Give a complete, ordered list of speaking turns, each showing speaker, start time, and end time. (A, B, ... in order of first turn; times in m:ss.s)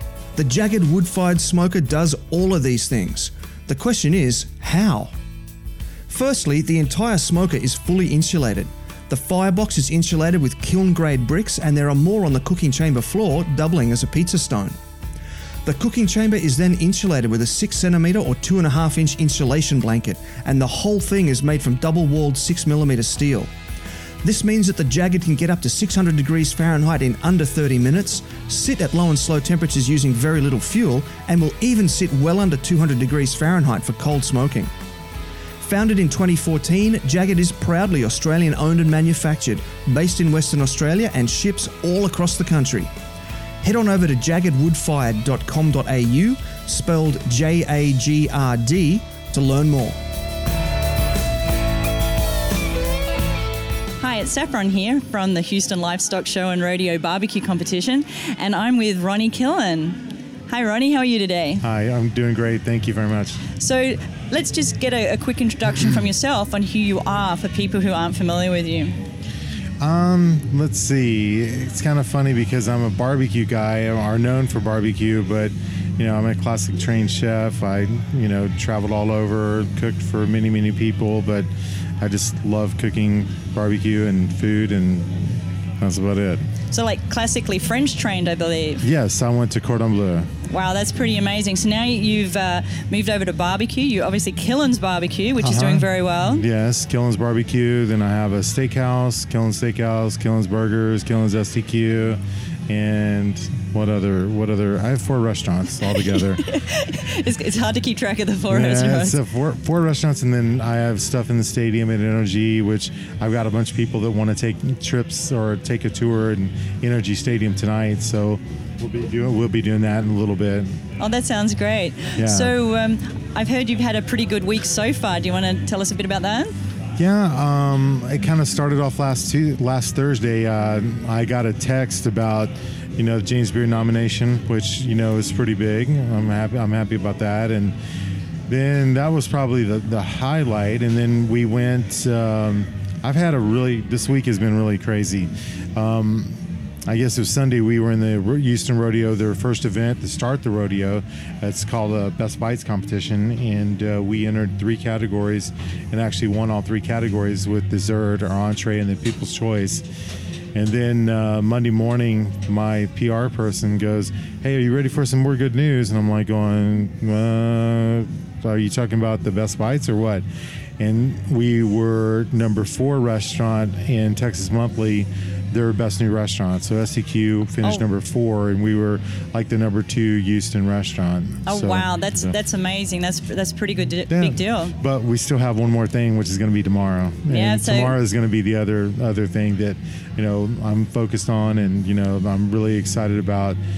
0:00.4-0:05.2 A
0:06.1-0:14.8 A
0:15.6-0:23.5 A
0:24.2-0:34.7 A
0:35.6-0:42.9 A
0:43.6-0:50.0 A
0:54.0-1:01.6 B
1:01.6-1:03.4 C
1:03.5-1:09.0 B
1:09.8-1:21.5 C
1:22.0-1:25.2 C
1:25.8-1:26.4 C
1:26.7-1:28.8 B
1:28.8-1:30.3 C
1:30.5-1:36.4 B
1:35.4-1:46.4 C
1:46.0-1:49.2 B
1:48.5-2:00.8 C
2:01.0-2:06.5 B
2:02.2-2:02.5 C
2:07.0-2:17.8 C
2:18.5-2:39.8 C
2:40.5-2:50.2 C
2:50.8-3:02.4 C
3:01.5-3:04.7 B
3:04.1-3:13.6 C
3:07.3-3:07.9 B